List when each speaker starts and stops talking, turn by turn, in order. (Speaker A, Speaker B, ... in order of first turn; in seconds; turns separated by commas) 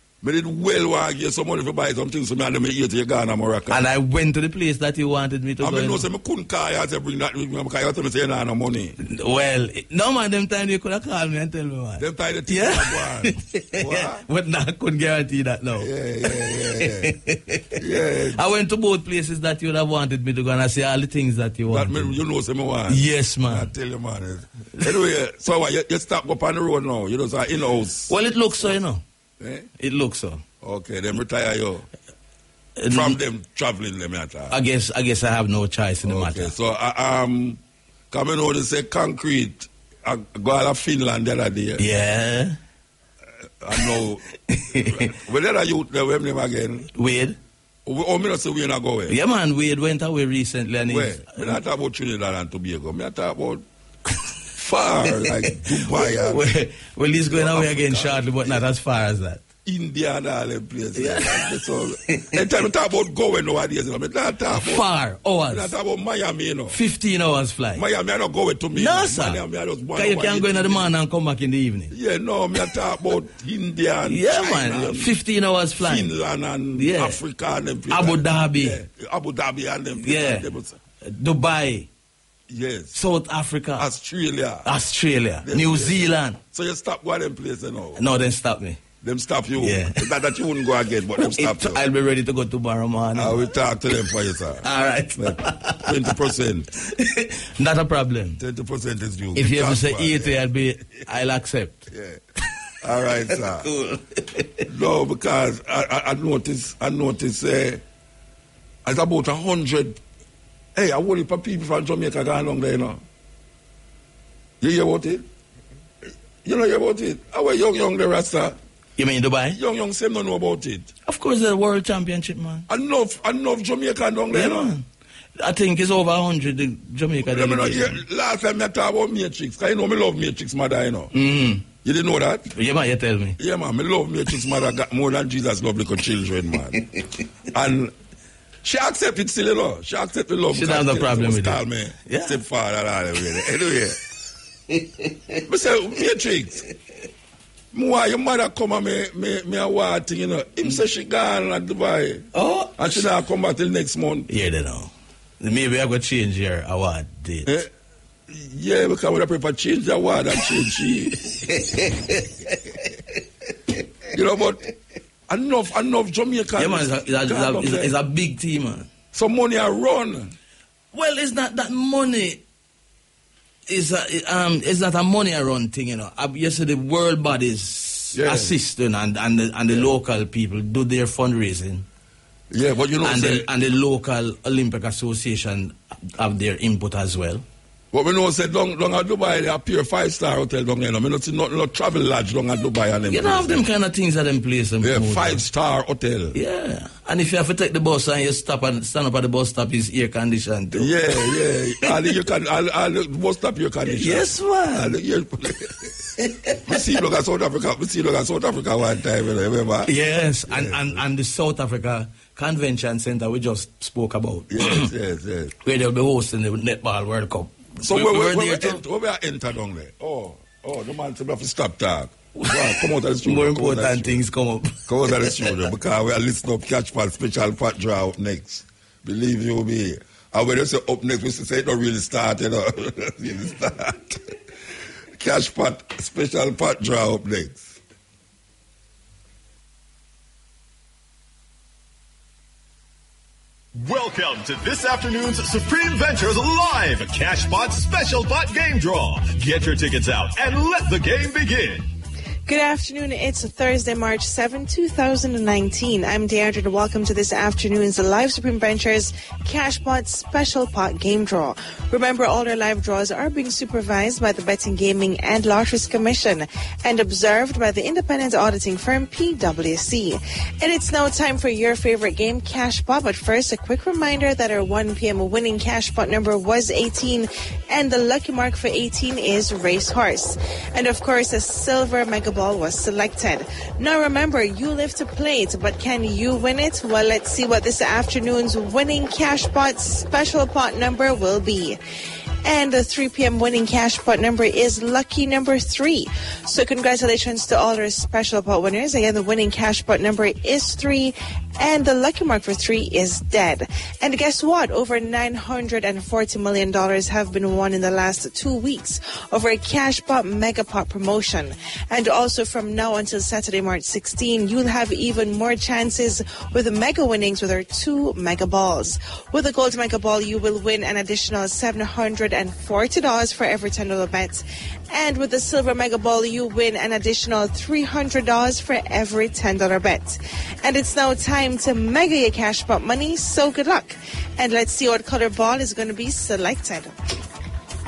Speaker A: 0.2-3.9, Speaker B: 3.7-6.0, Speaker A: 5.6-9.0, Speaker B: 9.0-17.6, Speaker A: 12.0-14.2, Speaker A: 15.8-17.1, Speaker A: 17.8-18.4, Speaker B: 18.3-22.2, Speaker A: 21.7-28.1, Speaker B: 22.9-23.7, Speaker B: 28.1-29.0, Speaker A: 29.4-29.7, Speaker B: 29.8-30.4, Speaker A: 30.6-31.9, Speaker B: 32.8-33.2, Speaker A: 32.9-34.6, Speaker B: 34.5-36.5, Speaker A: 36.0-41.9, Speaker B: 41.8-42.6, Speaker A: 43.6-44.2, Speaker B: 43.7-45.1, Speaker A: 44.9-46.9, Speaker B: 47.0-47.4, Speaker A: 47.9-49.2, Speaker B: 49.1-51.6, Speaker A: 50.9-53.6, Speaker A: 54.6-56.5, Speaker B: 55.1-59.4, Speaker A: 57.3-58.6, Speaker A: 59.6-64.8, Speaker B: 61.0-61.5, Speaker B: 64.5-65.7, Speaker A: 65.5-66.8, Speaker B: 66.7-67.8, Speaker A: 67.8-70.9, Speaker B: 68.8-69.4, Speaker B: 70.0-71.9, Speaker A: 71.9-75.1, Speaker B: 74.1-76.1, Speaker A: 75.8-80.8, Speaker B: 76.8-77.2, Speaker B: 77.9-78.8, Speaker B: 80.0-80.5, Speaker B: 81.0-81.9, Speaker A: 82.5-83.0, Speaker B: 83.0-83.9, Speaker A: 83.8-84.7, Speaker B: 84.7-86.4, Speaker A: 85.4-88.0, Speaker B: 88.0-88.8, Speaker A: 89.0-91.8, Speaker B: 89.6-90.4, Speaker B: 91.2-93.4, Speaker A: 93.2-96.7, Speaker B: 94.6-96.2, Speaker B: 97.0-98.4, Speaker A: 98.4-100.4, Speaker B: 99.4-101.9, Speaker A: 101.9-102.2, Speaker A: 102.8-103.7, Speaker B: 103.3-104.6, Speaker A: 104.7-107.8, Speaker A: 108.8-110.0, Speaker A: 110.8-113.0, Speaker A: 114.6-115.3, Speaker A: 116.4-118.6, Speaker B: 119.0-119.6, Speaker A: 119.5-120.9, Speaker B: 121.1-122.7, Speaker A: 122.7-124.7, Speaker B: 124.3-124.8, Speaker B: 125.4-128.0, Speaker A: 127.3-131.1, Speaker B: 131.1-131.7, Speaker A: 131.8-132.5, Speaker B: 132.5-133.4, Speaker A: 133.4-136.8, Speaker A: 137.5-137.9, Speaker A: 138.6-144.0, Speaker B: 140.5-142.4, Speaker A: 145.5-146.6, Speaker A: 147.7-154.3, Speaker B: 152.3-153.0, Speaker B: 154.3-157.5, Speaker A: 157.5-157.7, Speaker A: 158.3-161.3, Speaker B: 161.5-162.6, Speaker A: 164.1-164.6, Speaker A: 165.3-167.9, Speaker B: 166.6-168.9, Speaker A: 169.1-170.3, Speaker B: 170.9-172.4, Speaker B: 173.7-181.9, Speaker A: 178.1-178.5, Speaker A: 182.5-183.5, Speaker B: 183.0-187.4, Speaker A: 187.9-193.6, Speaker B: 193.1-195.4, Speaker A: 194.8-196.4, Speaker B: 196.3-201.0, Speaker A: 200.7-205.9, Speaker B: 201.9-202.1, Speaker B: 203.9-204.9, Speaker A: 206.7-209.9, Speaker B: 209.9-214.9, Speaker A: 210.5-211.0, Speaker A: 214.5-215.6, Speaker B: 215.7-218.8, Speaker A: 217.8-224.2, Speaker B: 222.4-225.6, Speaker A: 224.9-234.3, Speaker A: 235.2-237.8, Speaker C: 243.8-251.9, Speaker D: 252.5-291.8, Speaker D: 292.4-336.9